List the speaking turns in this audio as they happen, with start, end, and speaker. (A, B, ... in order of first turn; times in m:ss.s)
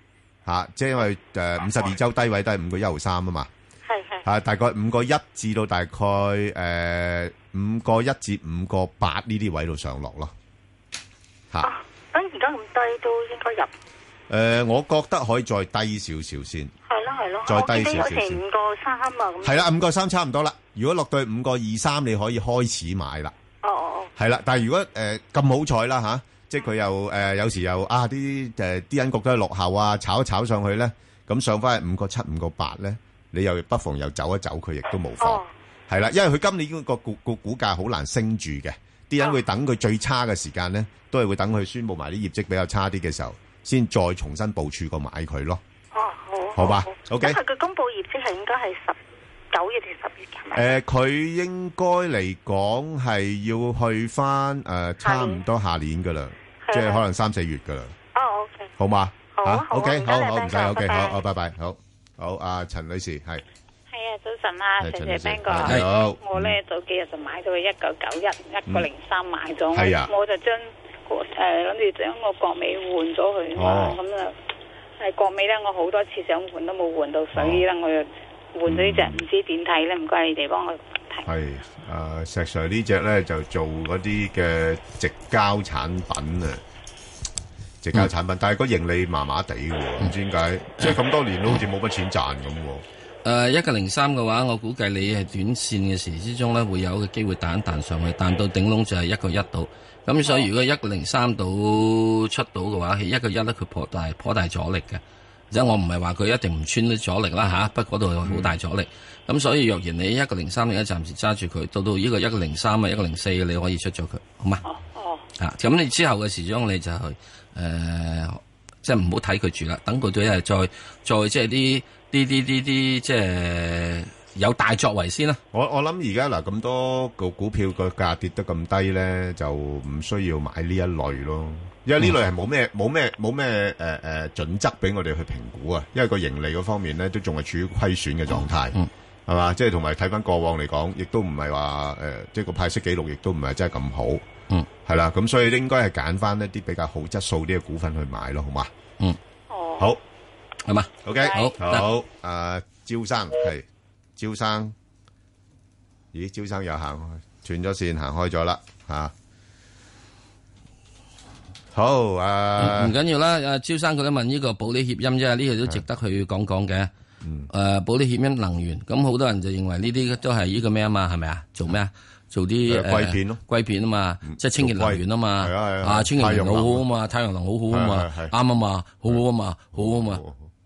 0:00.4-0:03.5 A
0:03.8-0:04.2 B
0:04.2-0:10.3 A
0:11.6-0:13.7 B
0:14.3-0:16.7 A
0:16.9-0:19.6 B
0:17.4-0:18.4 A
0:19.4-0:23.3 A
0:23.6-0:24.1 B
0:24.2-0:45.6 A
0:35.2-0:35.5 B
0:45.9-0:49.0 B
0:46.6-0:47.4 A
0:49.5-0:50.7 B
0:50.5-0:57.9 A
0:55.0-0:55.4 B
0:56.6-0:57.0 B
0:58.1-0:58.7 B
0:58.8-1:03.4 A
0:59.3-1:01.2 B
1:03.9-1:14.3 C
1:04.8-1:06.6 A
1:09.7-1:10.1 A
1:13.5-1:14.0 A
1:15.0-1:21.2 C
1:17.3-1:17.6 A
1:18.6-1:19.2 A
1:21.2-1:26.6 A
1:27.8-1:32.8 A
1:33.2-1:54.6 D
1:48.2-1:48.5 A
1:54.6-1:55.2 C
1:55.4-2:05.4 D
2:05.5-2:24.2 A
2:24.8-2:28.7 A
2:29.5-2:29.9 B
2:30.7-2:31.8 D
2:31.0-2:33.6 A
2:34.2-2:34.7 A
2:36.1-2:39.1 A
2:41.7-2:42.9 A
2:42.6-2:46.9 D
2:47.2-2:47.5 A
2:47.5-3:00.2 D
2:52.7-2:53.4 A
2:54.2-2:56.8 A
2:57.7-2:58.3 A
2:59.7-3:00.5 A